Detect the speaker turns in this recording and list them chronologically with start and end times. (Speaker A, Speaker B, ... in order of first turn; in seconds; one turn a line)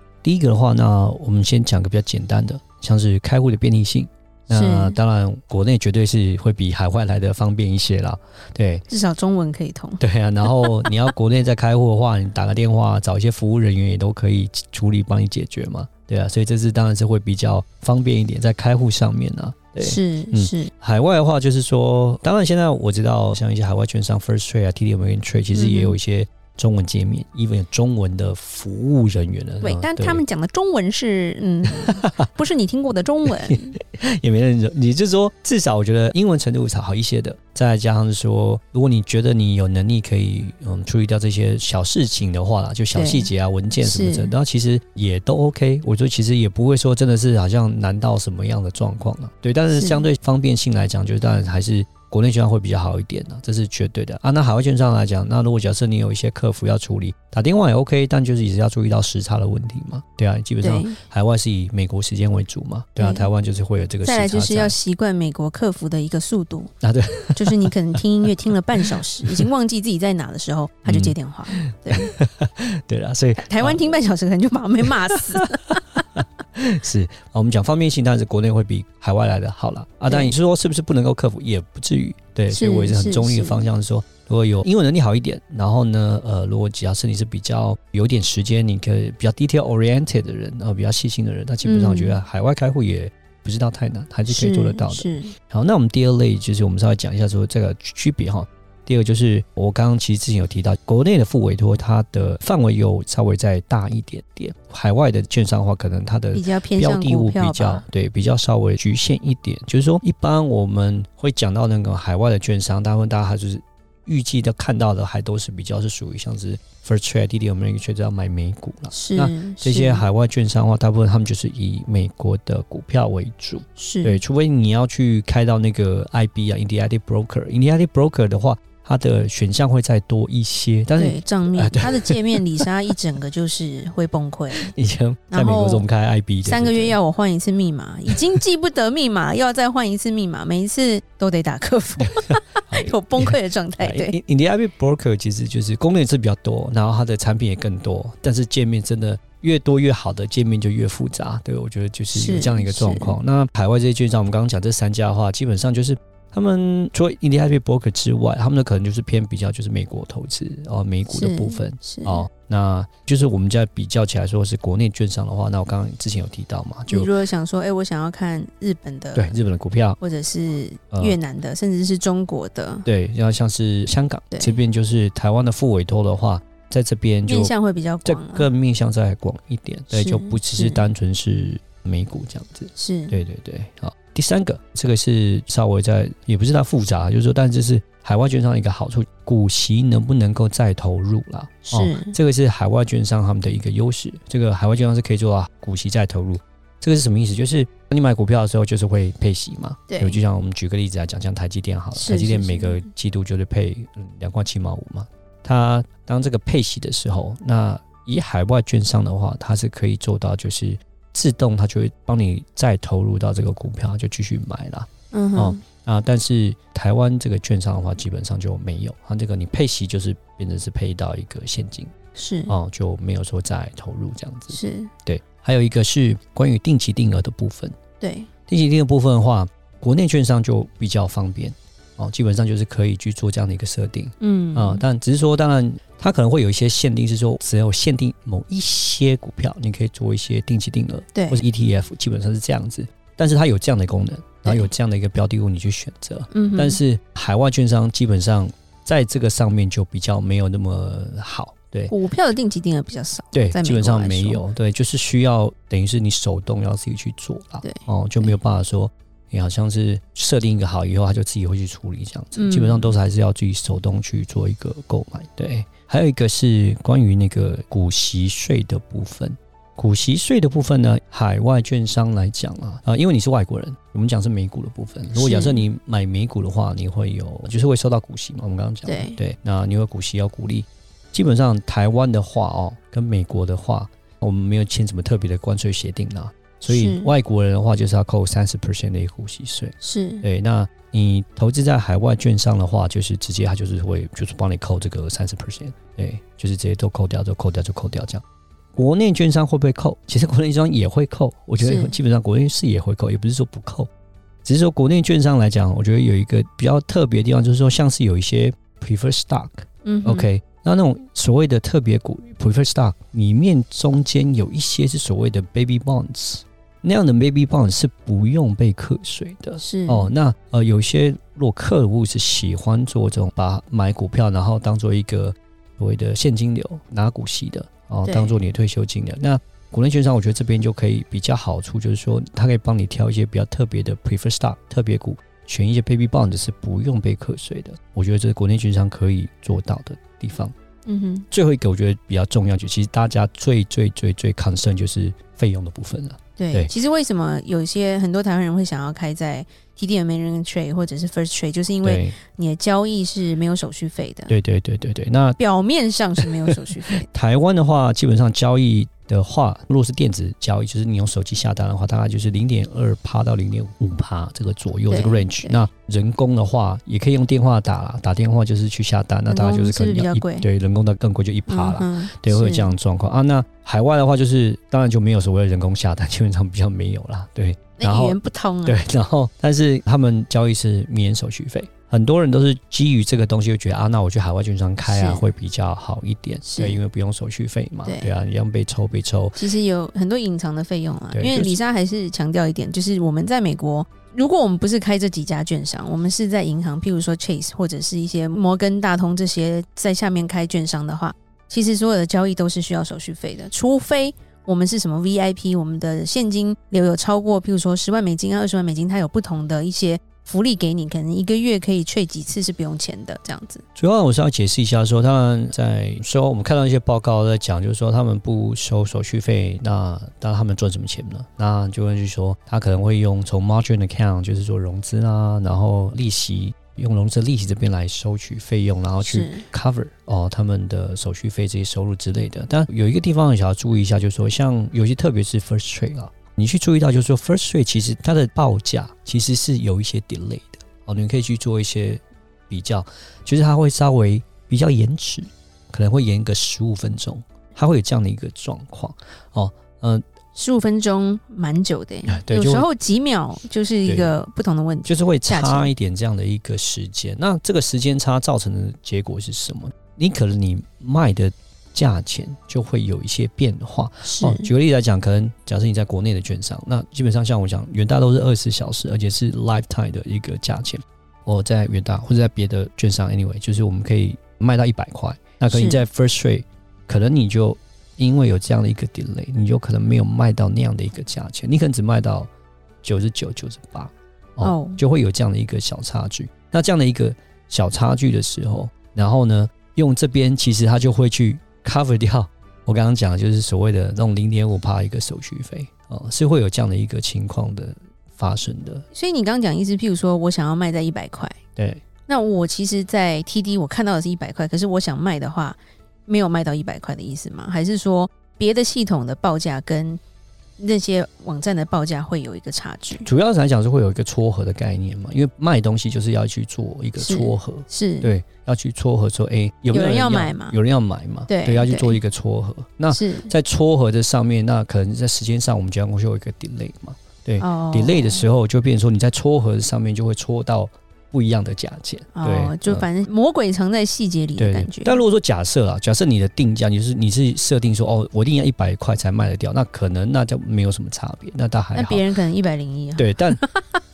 Speaker A: 0.2-8.8
Speaker B: 4.5-5.0
Speaker B: 8.9-10.9
Speaker A: 10.0-30.2
Speaker B: 19.8-20.7
Speaker B: 25.5-26.0
Speaker B: 29.6-33.8
Speaker A: 31.8-32.3
Speaker A: 33.3-64.8
Speaker B: 42.9-44.3
Speaker B: 49.7-50.0
Speaker B: 60.6-61.0
Speaker B: 63.0-63.3
Speaker B: 64.0-66.7
Speaker A: 66.8-68.0
Speaker B: 67.3-72.1
Speaker A: 70.8-74.1
Speaker B: 73.4-75.8
Speaker A: 75.9-132.7
Speaker B: 80.1-80.3
Speaker B: 82.5-83.6
Speaker B: 91.6-92.2
Speaker B: 94.3-95.3
Speaker B: 106.3-107.8
Speaker B: 118.9-120.0
Speaker B: 123.8-124.2
Speaker B: 131.0-134.7
Speaker A: 134.6-137.0
Speaker B: 135.3-135.9
Speaker B: 136.4-144.2
Speaker A: 138.1-138.4
Speaker A: 142.0-167.1
Speaker B: 152.1-153.2
Speaker B: 161.1-162.2
Speaker B: 166.9-169.4
Speaker A: 169.1-170.0
Speaker B: 170.0-172.9
Speaker A: 170.9-171.2
Speaker A: 172.8-177.5
Speaker B: 174.3-174.6
Speaker B: 177.3-178.5
Speaker A: 178.0-221.9
Speaker B: 179.9-180.8
Speaker B: 182.8-183.2
Speaker B: 191.7-192.2
Speaker B: 199.9-200.2
Speaker B: 201.9-202.8
Speaker B: 215.1-215.6
Speaker B: 222.2-222.5
Speaker A: 222.5-227.8
Speaker B: 224.5-224.9
Speaker B: 228.0-228.3
Speaker A: 228.5-251.9
Speaker B: 234.2-234.8
Speaker B: 241.1-241.4
Speaker B: 244.4-244.7
Speaker B: 246.3-246.8
Speaker B: 251.9-254.4
Speaker A: 253.3-298.2
Speaker B: 257.6-258.3
Speaker B: 262.3-262.9
Speaker B: 275.1-275.6
Speaker B: 278.8-279.2
Speaker B: 286.7-287.1
Speaker B: 289.8-290.2
Speaker A: 298.8-303.9
Speaker B: 301.6-301.9
Speaker A: 304.4-340.5
Speaker B: 309.8-310.2
Speaker B: 319.6-320.1
Speaker B: 328.0-328.3
Speaker B: 340.9-341.3
Speaker A: 341.3-346.7
Speaker B: 346.4-354.3
Speaker A: 351.8-352.2
Speaker A: 354.3-355.4
Speaker B: 355.4-357.1
Speaker A: 357.0-389.4
Speaker B: 364.9-365.6
Speaker B: 369.3-370.5
Speaker B: 371.5-372.8
Speaker B: 377.8-378.8
Speaker B: 384.8-385.2
Speaker B: 386.4-386.8
Speaker B: 387.8-388.1
Speaker B: 389.4-413.6
Speaker A: 391.1-391.6
Speaker A: 413.8-450.0
Speaker B: 429.0-429.4
Speaker B: 450.3-455.7
Speaker A: 452.1-452.7
Speaker A: 453.8-454.1
Speaker A: 454.9-482.3
Speaker B: 464.0-464.5
Speaker B: 475.5-475.8
Speaker A: 482.8-498.8
Speaker B: 484.4-484.8
Speaker B: 498.9-501.4
Speaker A: 501.6-501.8
Speaker B: 502.1-510.0
Speaker B: 510.6-513.1
Speaker A: 513.0-532.9
Speaker B: 517.0-518.1
Speaker B: 519.7-520.5
Speaker B: 521.3-522.0
Speaker B: 522.9-523.3
Speaker B: 527.4-528.2
Speaker B: 532.1-535.0
Speaker A: 534.4-542.0
Speaker B: 541.7-543.8
Speaker A: 543.0-543.4